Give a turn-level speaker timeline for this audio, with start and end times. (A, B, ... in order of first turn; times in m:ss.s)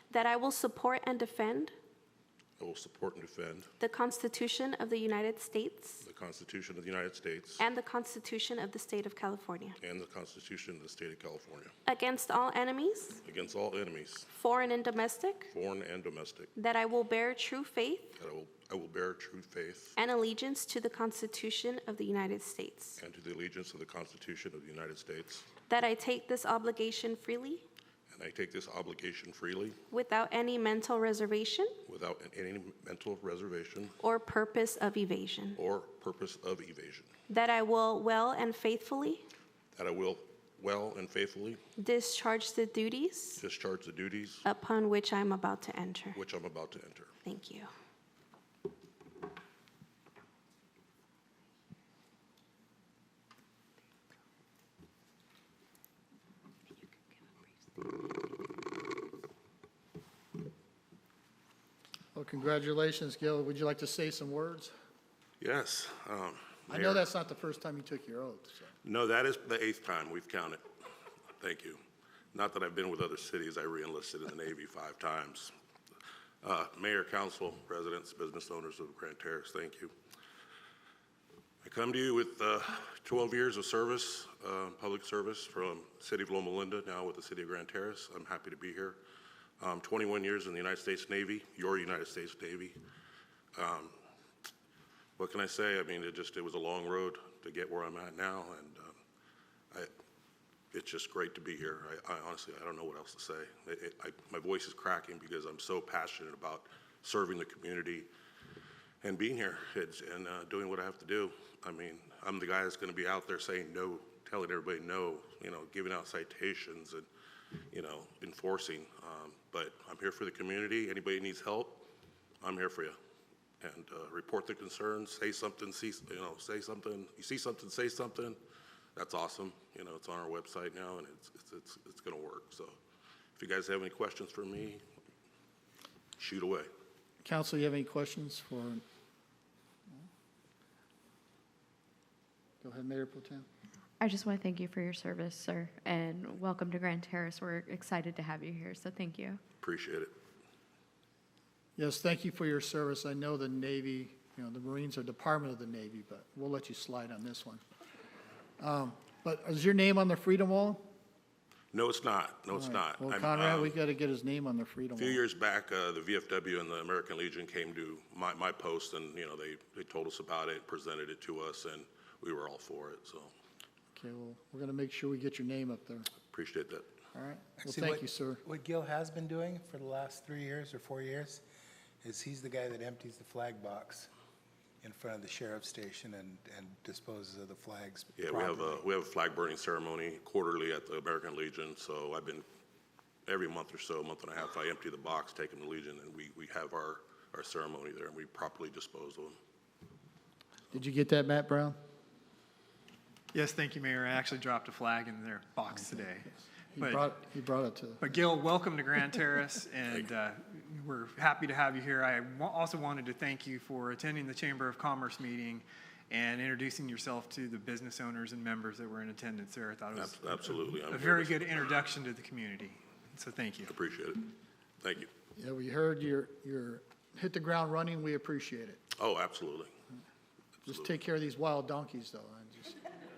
0:00.1-0:01.7 A
0:02.6-0:03.7 B
0:03.8-0:06.0 A
0:06.0-0:07.6 B
0:07.6-0:09.8 A
0:09.8-0:11.7 B
0:11.9-0:13.2 A
0:13.2-0:14.3 B
0:14.3-0:15.5 A
0:15.5-0:16.5 B
0:16.6-0:18.1 A
0:18.2-0:20.0 B
0:20.0-0:23.0 A
0:23.0-0:25.5 B
0:25.7-0:27.6 A
0:28.1-0:29.8 B
0:29.9-0:31.8 A
0:31.9-0:34.0 B
0:34.0-0:35.6 A
0:35.6-0:37.1 B
0:37.3-0:39.2 A
0:39.8-0:41.6 B
0:41.8-0:43.4 A
0:43.4-0:44.4 B
0:44.4-0:46.2 A
0:46.2-0:47.1 B
0:47.2-0:47.7 A
1:02.2-1:04.7 C
1:05.4-1:07.1 B
1:06.7-1:08.7 C
1:08.8-1:10.6 B
1:11.4-1:11.8 B
1:12.3-1:15.5 B
1:16.4-1:19.9 B
1:21.6-1:29.0 B
1:29.6-1:32.8 B
1:33.6-1:34.0 B
1:35.2-1:39.0 B
1:40.7-1:48.1 B
1:49.0-1:57.1 B
1:57.7-2:01.9 B
2:02.4-2:03.0 B
2:03.6-2:08.4 B
2:09.0-2:12.8 B
2:13.4-2:14.8 B
2:16.2-2:16.7 B
2:17.2-2:18.8 C
2:22.6-2:23.5 C
2:24.0-2:29.4 D
2:29.6-2:30.1 B
2:31.8-2:37.6 C
2:38.6-2:40.9 C
2:41.7-2:43.8 B
2:42.5-2:45.2 C
2:45.0-2:53.3 B
2:54.0-2:56.1 C
2:56.3-2:56.9 B
2:57.1-2:58.4 C
2:57.6-3:01.4 E
3:02.0-3:04.1 E
3:04.8-3:08.8 E
3:08.2-3:12.4 B
3:13.3-3:19.4 B
3:20.7-3:21.8 C
3:23.3-3:27.0 F
3:26.8-3:28.0 C
3:28.0-3:43.8 F
3:40.0-3:41.9 B
3:43.7-3:45.1 B
3:45.4-3:48.8 C
3:49.0-3:49.7 B
3:50.7-3:52.8 C